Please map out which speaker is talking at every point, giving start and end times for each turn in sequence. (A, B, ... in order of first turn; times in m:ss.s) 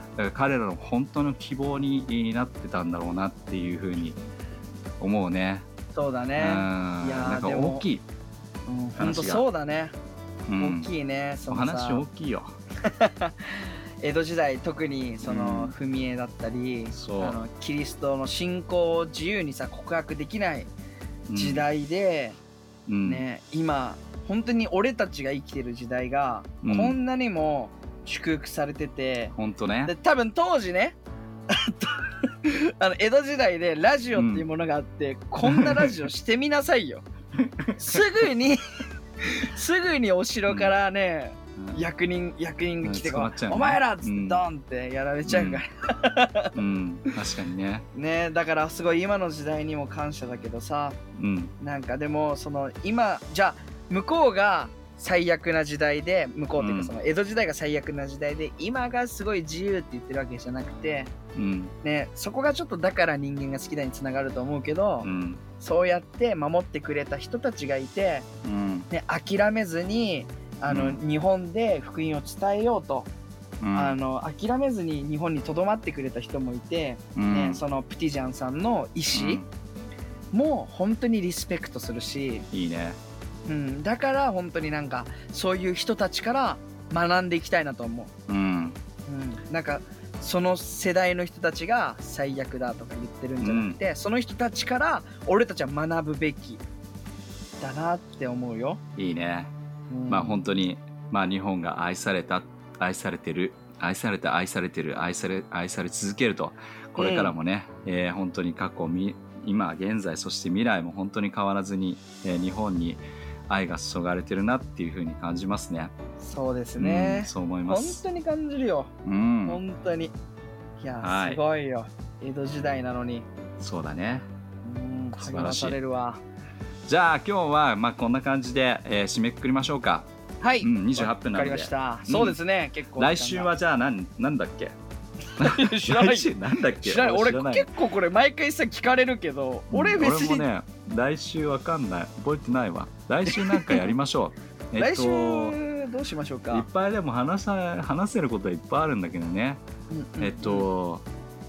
0:00.2-0:04.2 A
0:05.0-0:05.7 A
0:05.9-0:07.8 B
0:06.4-0:08.0 A
0:08.7-0:10.0 B
0:09.0-0:09.4 A
0:10.5-0:10.9 A
0:10.6-0:12.0 B
0:11.5-0:12.6 A
0:12.8-0:20.7 B
0:15.2-0:15.7 A
0:16.9-0:17.4 A
0:21.3-0:21.6 A
0:21.4-0:22.4 B
0:22.9-0:23.2 A
0:23.0-0:29.3 B
0:26.6-0:27.0 A
0:29.3-0:29.9 A
0:29.8-0:31.0 B
0:31.5-0:37.1 B
0:34.1-0:34.5 A
0:35.4-0:36.1 A
0:37.4-0:38.0 A
0:37.8-0:38.6 B
0:39.2-0:46.5 B
0:40.5-0:40.7 A
0:42.8-0:44.4 A
0:45.3-0:45.6 A
0:46.6-0:47.9 A
0:47.9-0:51.0 B
0:51.2-0:51.5 A
0:51.6-1:01.1 B
0:56.6-0:56.9 A
1:01.4-1:01.7 A
1:01.8-1:08.3 B
1:05.0-1:05.4 A
1:08.4-1:08.9 A
1:08.9-1:13.1 B
1:10.7-1:11.0 A
1:13.6-1:14.0 A
1:13.7-1:19.4 B
1:17.2-1:17.6 A
1:19.1-1:19.5 A
1:20.3-1:22.5 B
1:22.5-1:23.0 A
1:23.5-1:28.1 B
1:28.3-1:28.8 A
1:29.1-1:36.6 B
1:33.4-1:33.8 A
1:37.6-1:38.8 B
1:39.0-1:39.5 A
1:39.9-1:40.6 B
1:40.1-1:55.9 A
1:47.0-1:47.3 B
1:56.2-1:58.9 B
1:56.8-1:58.0 A
1:59.0-1:59.6 A
1:59.4-2:00.1 B
2:00.8-2:03.3 B
2:01.0-2:01.4 A
2:03.6-2:04.3 A
2:04.6-2:06.2 B
2:05.2-2:05.8 A
2:06.9-2:10.1 A
2:10.4-2:13.5 B
2:10.6-2:12.4 A
2:13.0-2:14.8 A
2:15.4-2:16.3 B
2:15.4-2:17.7 A
2:16.8-2:20.4 B
2:19.7-2:25.6 A
2:23.3-2:23.9 B
2:24.8-2:26.7 B
2:26.5-2:29.6 A
2:29.9-2:30.7 B
2:30.2-2:31.1 A